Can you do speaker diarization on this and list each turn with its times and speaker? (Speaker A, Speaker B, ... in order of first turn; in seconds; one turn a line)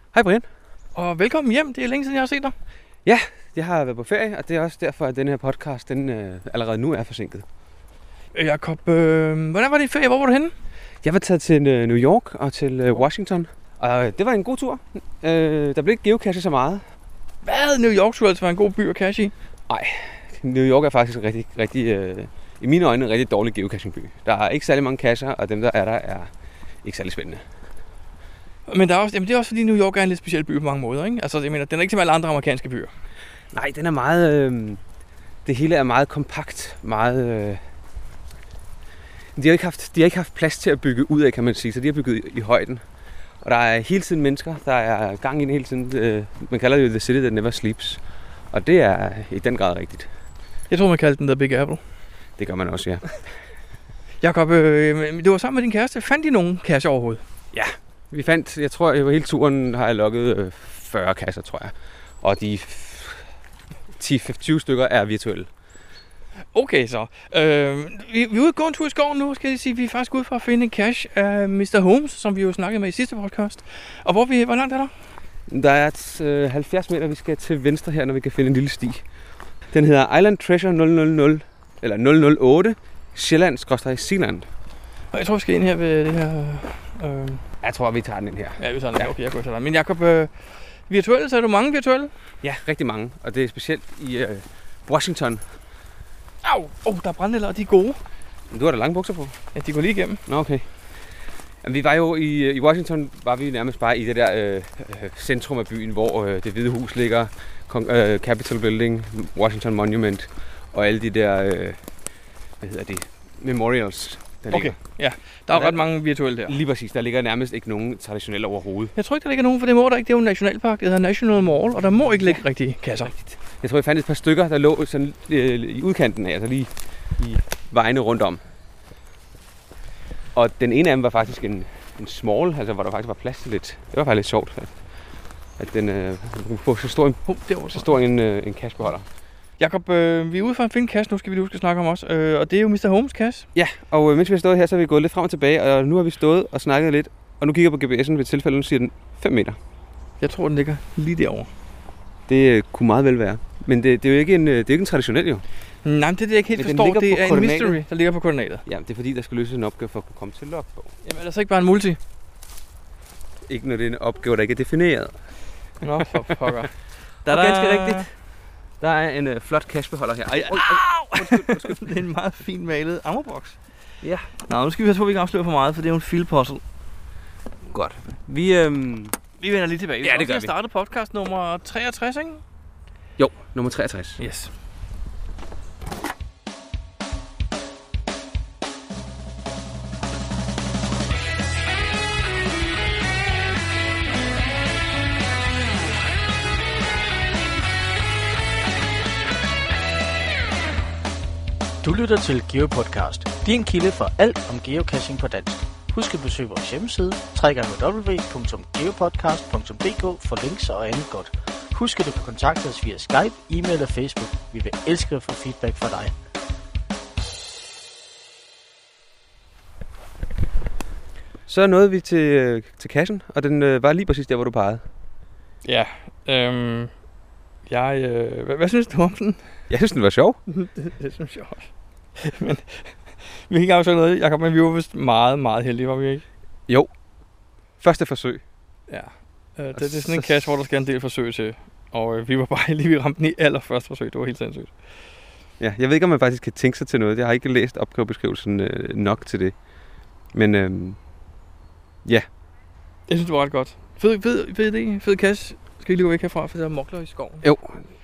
Speaker A: 0.1-0.5
Speaker B: 0.9-2.5
Speaker A: 3.0-7.4
Speaker B: 8.3-10.5
Speaker A: 11.0-16.8
Speaker B: 17.4-19.3
Speaker A: 19.7-26.3
Speaker A: 26.8-27.4
Speaker B: 28.7-32.9
Speaker A: 33.5-34.8
Speaker A: 35.5-37.6
Speaker A: 39.4-42.8
Speaker A: 43.4-50.1
Speaker B: 50.7-51.8
Speaker A: 52.4-53.2
Speaker B: 54.2-57.2
Speaker A: 57.5-63.2
Speaker A: 64.0-65.5
Speaker B: 66.5-74.9
Speaker A: 75.5-79.0
Speaker A: 79.7-84.5
Speaker B: 85.1-87.4
Speaker A: 87.6-89.1
Speaker B: 88.6-90.3
Speaker B: 90.9-92.1
Speaker A: 92.4-95.4
Speaker B: 96.4-98.0
Speaker A: 98.5-99.4
Speaker B: 99.5-100.2
Speaker A: 100.3-100.7
Speaker A: 101.6-111.8
Speaker A: 112.6-114.8
Speaker B: 114.5-116.5
Speaker A: 115.5-115.8
Speaker A: 116.5-118.9
Speaker B: 119.0-123.1
Speaker A: 123.1-128.4
Speaker A: 130.3-134.9
Speaker A: 135.6-139.1
Speaker B: 137.3-137.9
Speaker B: 139.6-143.5
Speaker A: 143.6-149.6
Speaker B: 150.2-151.5
Speaker A: 152.3-155.4
Speaker B: 155.8-158.6
Speaker A: 156.6-157.8
Speaker A: 158.7-160.9
Speaker B: 161.0-162.0
Speaker A: 163.5-165.1
Speaker B: 165.8-166.7
Speaker B: 167.2-168.1
Speaker A: 167.3-168.1
Speaker A: 168.8-172.0
Speaker B: 170.3-173.6
Speaker A: 174.0-174.3
Speaker B: 174.5-176.6
Speaker A: 177.7-179.2
Speaker B: 179.4-182.4
Speaker A: 180.0-180.5
Speaker A: 183.2-184.2
Speaker B: 184.2-184.5
Speaker C: 201.8-216.1
Speaker A: 221.5-224.9
Speaker B: 225.6-226.9
Speaker B: 227.7-229.4
Speaker A: 229.7-230.4
Speaker B: 230.5-231.7
Speaker B: 232.2-236.2
Speaker A: 237.8-238.4
Speaker B: 238.9-244.7
Speaker A: 239.8-240.5
Speaker A: 245.6-249.6
Speaker A: 250.3-251.0
Speaker B: 253.1-257.4
Speaker A: 257.4-257.8